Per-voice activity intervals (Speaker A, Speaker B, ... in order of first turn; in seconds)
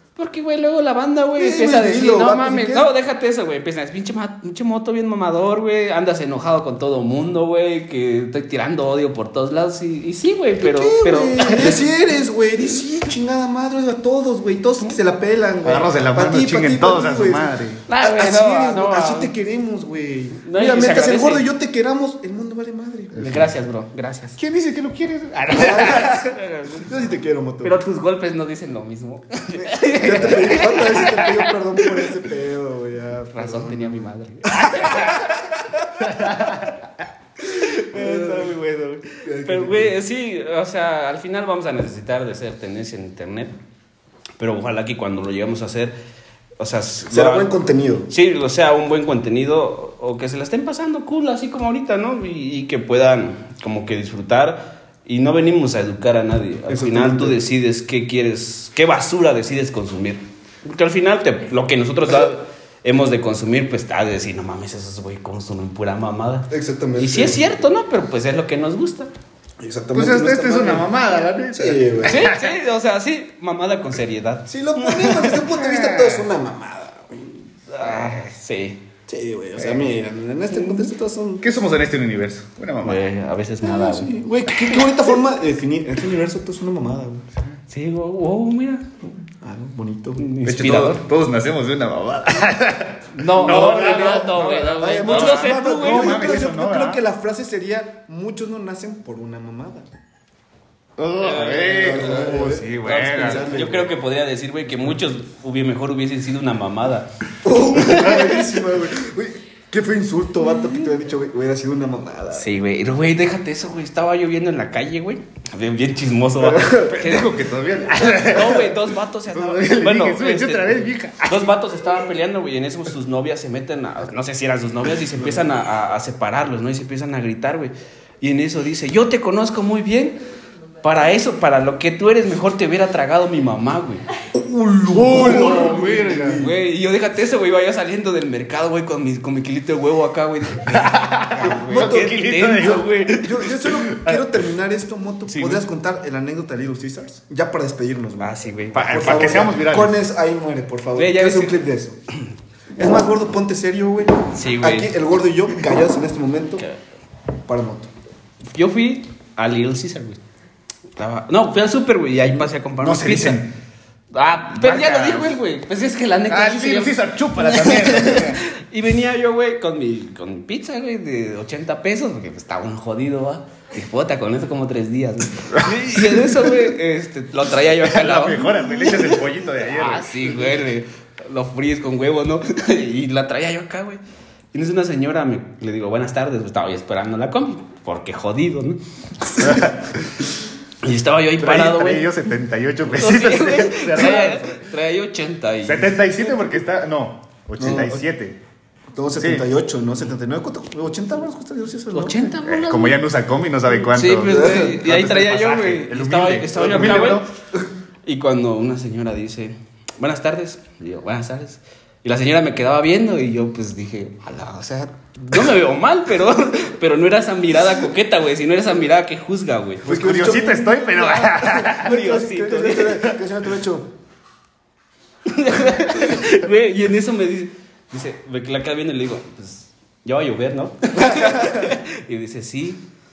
Speaker A: 0.2-11.9, 17.9-19.3, 20.4-21.5, 23.2-24.4, 25.8-27.1, 27.6-32.1, 33.3-35.3, 37.4-43.5, 44.4-45.9, 46.6-47.5, 48.1-69.1, 72.1-75.6, 77.7-78.8, 79.6-79.8, 80.5-80.9, 82.8-85.0, 87.7-88.9, 90.2-91.0, 93.1-96.4, 101.2-107.1, 107.7-108.5, 112.3-117.4, 118.0-130.2, 130.8-134.0, 135.2-143.7, 145.3-145.7, 148.2-149.6, 151.0-151.6, 154.3-154.9, 158.6-160.2, 161.0-163.4, 164.1-184.0, 184.5-189.7, 190.8-192.2, 193.0-196.6, 201.9-203.0, 203.8-207.2, 208.1-219.9, 220.7-223.1, 225.3-232.8
Speaker B: 1.4-2.9, 10.6-23.3, 25.5-27.8, 29.5-36.3, 37.9-38.6, 39.2-40.0, 47.1-48.1, 56.7-57.4, 66.5-67.5, 69.6-70.9, 71.5-72.2, 74.5-77.3, 77.8-78.2, 79.1-81.5, 83.6-87.3, 89.4-90.2, 93.4-94.2, 94.8-99.9, 101.7-103.9, 107.4-112.5, 116.4-117.0, 134.3-136.6, 141.4-152.0, 152.8-156.7, 157.5-157.9, 197.6-198.0, 198.9-202.3, 204.3-204.9, 219.8-223.9, 231.0-231.6
Speaker C: 15.6-17.9, 23.1-23.5, 24.4-26.1, 36.0-36.7, 69.9-72.5, 75.5-76.3, 81.4-83.0, 90.5-97.0, 101.0-103.5, 116.8-121.6, 134.9-136.4, 140.7-142.9, 143.9-144.2, 148.8-150.0, 162.8-163.5, 164.5-165.3, 166.3-168.4, 177.8-180.6, 189.4-190.2, 191.4-194.7, 195.6-198.4, 199.2-199.5, 202.4-207.3, 219.8-221.9